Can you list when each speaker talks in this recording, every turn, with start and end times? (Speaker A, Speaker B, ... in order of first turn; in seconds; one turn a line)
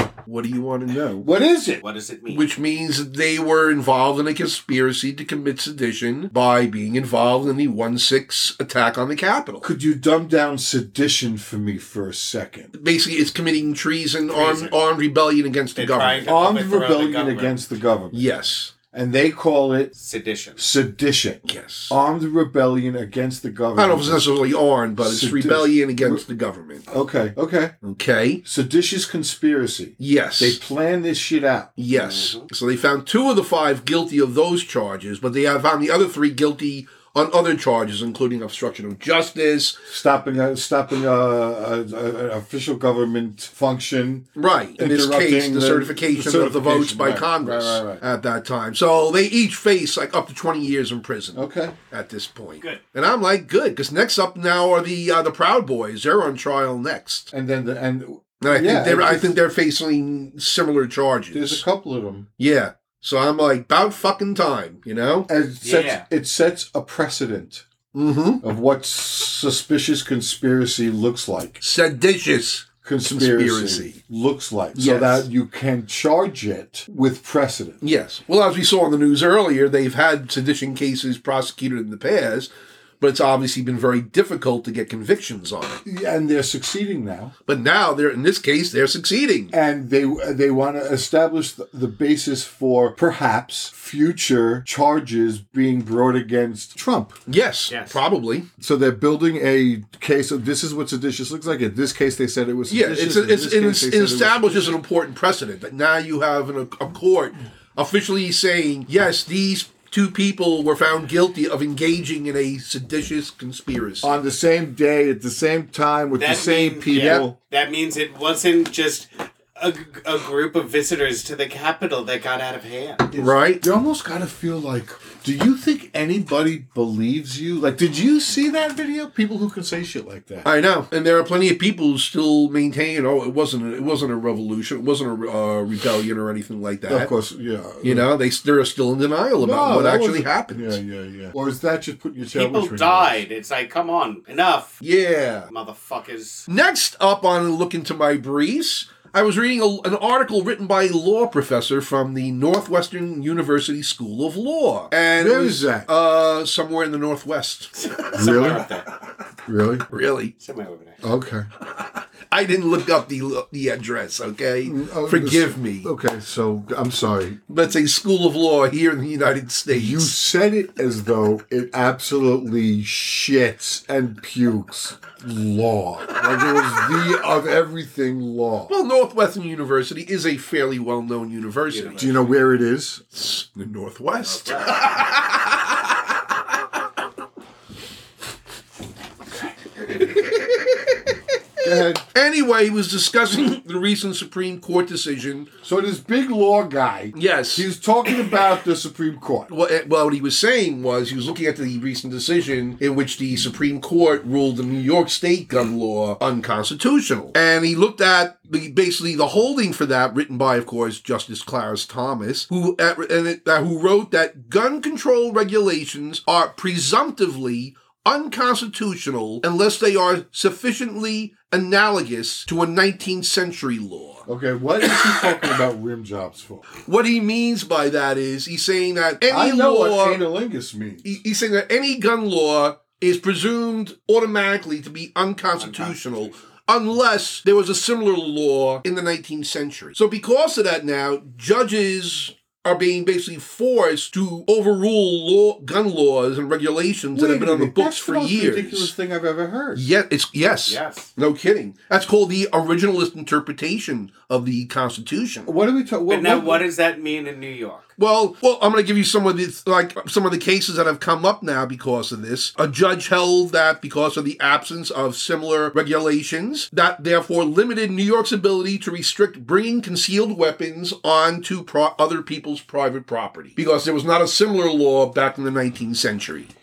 Speaker A: 0.3-1.3
Speaker B: 1.2-1.8
Speaker C: 1.8-2.5
Speaker A: 2.3-9.7
Speaker B: 9.6-12.7
Speaker A: 12.7-16.3
Speaker C: 14.3-14.8
Speaker C: 15.8-17.6
Speaker B: 16.3-18.3
Speaker A: 18.1-18.7
Speaker B: 18.9-19.9
Speaker C: 20.0-20.6
Speaker B: 20.6-24.3
Speaker A: 21.5-21.9
Speaker A: 23.8-26.9
Speaker B: 25.0-26.2
Speaker B: 26.9-27.7
Speaker A: 27.8-28.4
Speaker B: 28.4-31.7
Speaker A: 30.0-30.6
Speaker A: 31.8-39.8
Speaker C: 31.9-32.5
Speaker B: 39.9-44.3
Speaker A: 44.4-57.3
Speaker B: 44.8-48.0
Speaker B: 51.4-51.8
Speaker B: 57.3-59.4
Speaker A: 58.4-61.6
Speaker B: 61.3-62.3
Speaker A: 62.4-65.3
Speaker B: 65.3-67.7
Speaker C: 65.6-66.0
Speaker A: 67.9-68.4
Speaker B: 68.4-71.6
Speaker A: 71.6-74.0
Speaker B: 72.8-77.8
Speaker A: 74.8-75.3
Speaker A: 77.8-82.5
Speaker A: 83.0-85.8
Speaker B: 85.8-87.3
Speaker A: 87.5-89.5
Speaker B: 89.5-97.2
Speaker A: 97.3-98.5
Speaker C: 97.7-98.0
Speaker B: 98.6-104.8
Speaker A: 102.7-114.2
Speaker B: 114.0-117.4
Speaker C: 116.2-123.1
Speaker A: 116.9-117.3
Speaker A: 123.2-123.6
Speaker B: 123.2-130.5
Speaker A: 130.5-137.1
Speaker B: 136.9-138.1
Speaker A: 137.8-140.8
Speaker B: 139.4-143.2
Speaker C: 142.3-144.8
Speaker A: 144.8-145.5
Speaker C: 145.5-146.5
Speaker A: 146.5-158.6
Speaker B: 155.2-155.9
Speaker C: 157.8-158.9
Speaker B: 158.1-158.7
Speaker B: 159.5-159.8
Speaker A: 159.9-160.3
Speaker C: 160.4-161.0
Speaker B: 161.0-161.5
Speaker A: 162.3-165.9
Speaker B: 164.7-167.4
Speaker A: 167.5-170.1
Speaker B: 169.7-178.7
Speaker A: 176.2-177.0
Speaker A: 178.7-182.2
Speaker C: 181.7-182.4
Speaker B: 182.0-183.1
Speaker A: 183.1-186.3
Speaker C: 184.1-185.0
Speaker A: 190.0-190.8
Speaker B: 191.6-192.1
Speaker A: 192.1-195.5
Speaker B: 195.6-199.5
Speaker A: 197.1-197.7
Speaker A: 199.5-224.2
Speaker B: 224.3-226.7
Speaker A: 224.8-225.2
Speaker A: 226.8-230.2
Speaker B: 229.3-231.2
Speaker A: 231.0-248.9
Speaker C: 235.6-236.3
Speaker B: 247.1-249.9
Speaker A: 249.8-255.5
Speaker C: 250.7-251.1
Speaker B: 255.4-256.6
Speaker C: 256.1-257.9
Speaker A: 258.0-276.5